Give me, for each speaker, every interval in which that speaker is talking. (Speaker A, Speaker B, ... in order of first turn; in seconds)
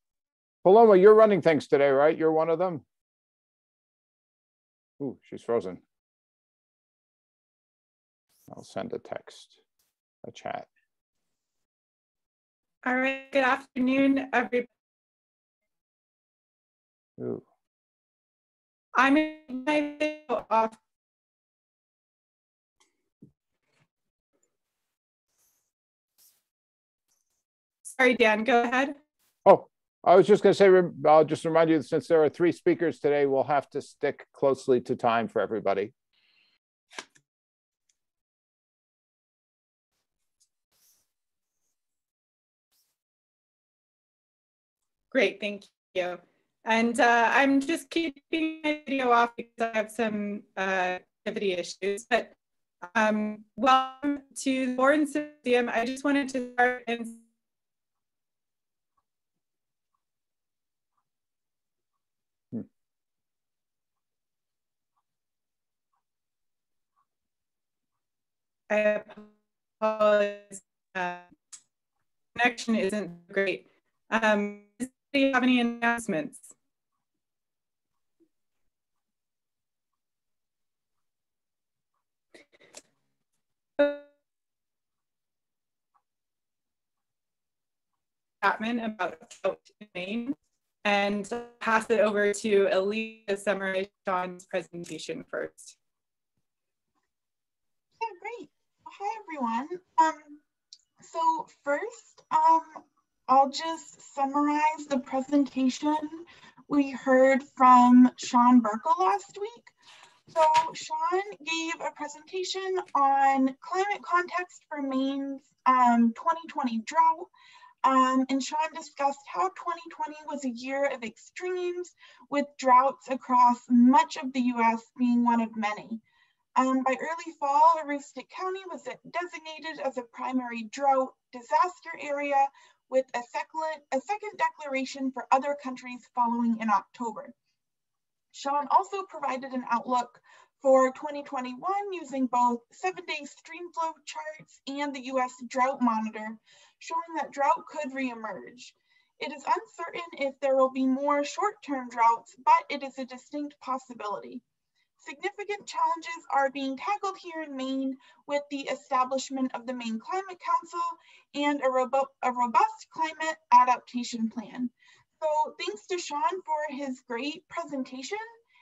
Speaker A: 0.6-2.8, 5.0-5.8, 8.5-9.6, 10.2-10.7, 17.2-17.4, 29.4-35.9
Speaker B: 12.8-14.7, 18.9-20.8, 27.9-29.0, 45.1-52.3, 52.9-57.2, 68.7-69.3, 69.8-71.3, 72.3-76.5, 83.8-84.0, 88.4-95.8
Speaker C: 98.0-100.4, 101.0-109.7, 110.3-117.3, 117.8-126.0, 126.6-137.3, 138.3-154.4, 155.0-168.3